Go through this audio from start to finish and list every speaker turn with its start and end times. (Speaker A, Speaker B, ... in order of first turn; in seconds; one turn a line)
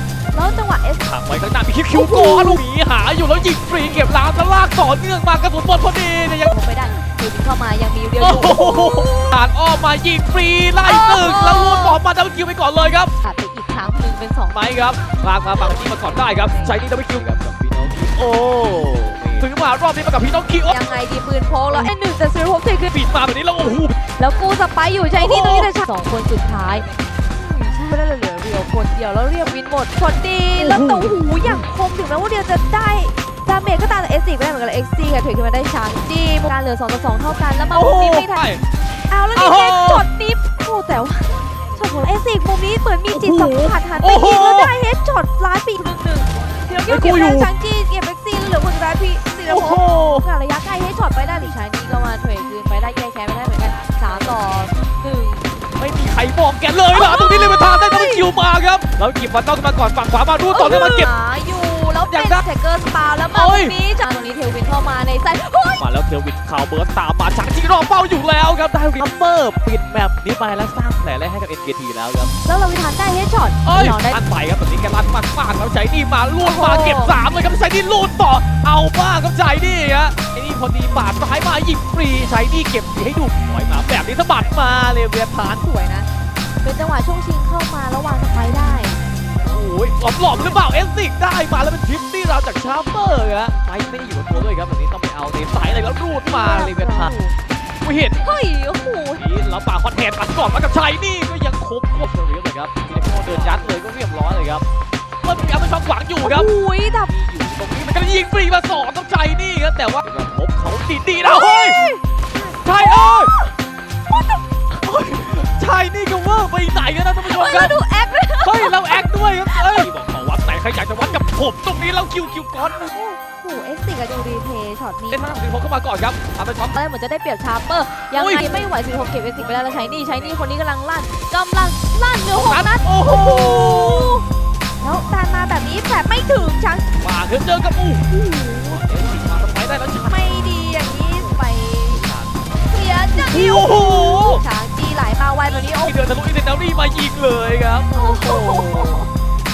Speaker A: 0.3-1.0
Speaker B: 1.0-6.5
Speaker A: 1.9-2.6
Speaker A: 6.4-9.3
Speaker B: 8.2-13.1
Speaker A: 10.8-12.0
Speaker A: 13.2-14.6
Speaker B: 14.5-20.8
Speaker A: 15.5-16.8
Speaker A: 20.7-22.9
Speaker B: 22.9-24.0
Speaker A: 24.1-38.5
Speaker B: 25.1-25.7
Speaker B: 30.6-31.6
Speaker B: 37.7-38.6
Speaker A: 39.1-55.5
Speaker B: 39.3-40.0
Speaker B: 43.1-44.7
Speaker B: 46.9-47.5
Speaker B: 49.4-50.2
Speaker B: 55.8-61.1
Speaker A: 56.9-58.3
Speaker A: 60.5-65.8
Speaker B: 62.1-62.4
Speaker B: 63.3-63.8
Speaker B: 65.8-72.3
Speaker A: 72.4-74.2
Speaker B: 73.6-85.6
Speaker A: 76.4-77.2
Speaker A: 85.6-86.1
Speaker A: 86.6-89.0
Speaker B: 89.4-97.1
Speaker A: 96.2-97.3
Speaker B: 97.8-98.3
Speaker A: 98.1-99.2
Speaker B: 99.2-104.6
Speaker B: 105.2-106.5
Speaker A: 106.2-107.1
Speaker B: 107.0-111.8
Speaker A: 111.2-113.5
Speaker B: 112.5-113.4
Speaker A: 114.1-114.4
Speaker B: 114.7-117.8
Speaker A: 117.2-119.9
Speaker B: 118.4-122.9
Speaker A: 122.8-125.2
Speaker B: 125.1-126.8
Speaker A: 126.7-134.2
Speaker B: 128.1-128.6
Speaker B: 132.3-134.2
Speaker A: 134.8-136.9
Speaker B: 137.0-140.4
Speaker A: 138.1-138.8
Speaker A: 140.0-142.0
Speaker B: 141.0-142.3
Speaker A: 142.6-145.9
Speaker B: 143.1-144.4
Speaker B: 145.7-149.0
Speaker A: 147.9-149.1